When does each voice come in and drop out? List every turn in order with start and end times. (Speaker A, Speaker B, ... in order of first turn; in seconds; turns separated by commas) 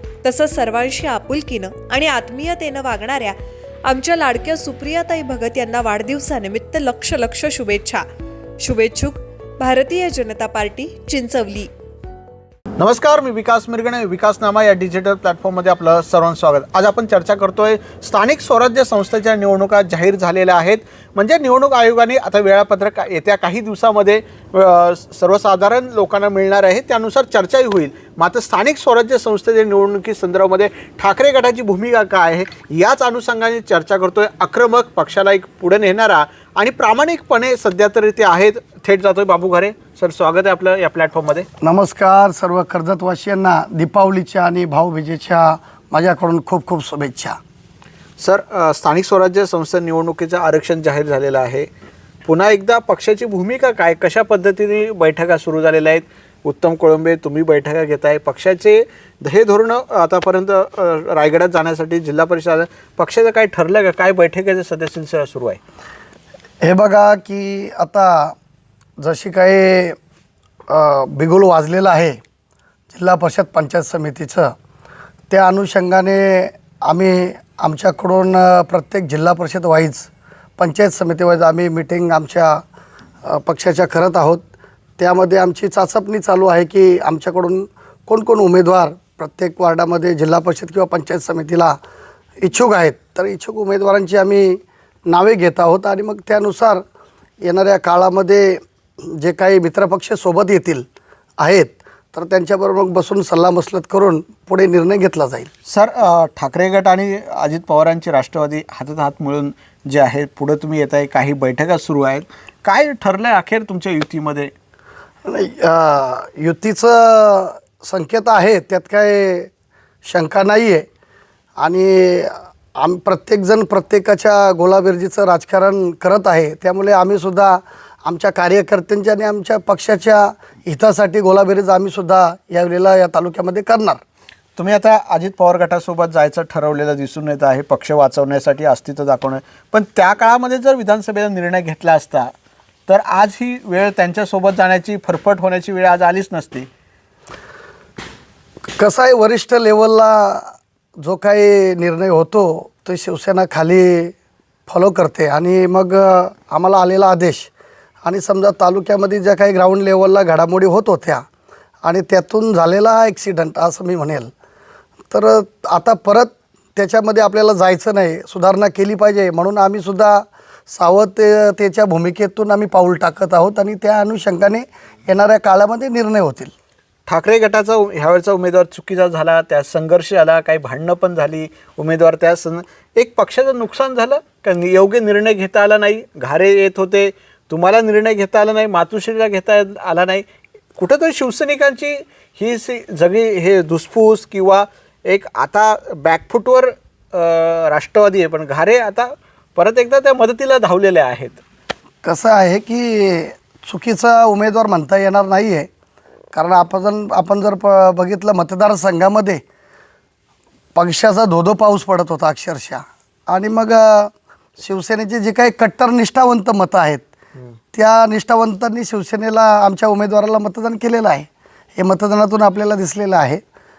Speaker A: 0.2-8.0, Speaker A: 8.6-11.7, Speaker B: 12.8-41.5, Speaker C: 41.6-47.4, Speaker B: 48.2-51.7, Speaker B: 52.2-65.6, Speaker C: 66.6-68.3, Speaker C: 69.0-70.0, Speaker C: 70.7-72.2, Speaker C: 72.9-74.5, Speaker C: 75.3-82.6, Speaker C: 83.2-84.4, Speaker C: 85.0-91.8, Speaker C: 92.4-96.8, Speaker C: 97.4-100.9, Speaker C: 101.4-105.5, Speaker B: 105.7-114.5, Speaker C: 115.2-119.5, Speaker C: 120.0-120.8, Speaker C: 121.6-134.0, Speaker B: 134.6-142.3, Speaker B: 142.9-146.7, Speaker C: 148.8-154.1, Speaker C: 154.7-157.5, Speaker C: 158.0-161.2, Speaker C: 161.8-164.3, Speaker C: 165.1-176.5, Speaker B: 177.1-190.2, Speaker B: 190.8-201.4, Speaker C: 202.0-205.7, Speaker C: 206.3-209.4, Speaker C: 210.7-217.0, Speaker C: 217.7-223.4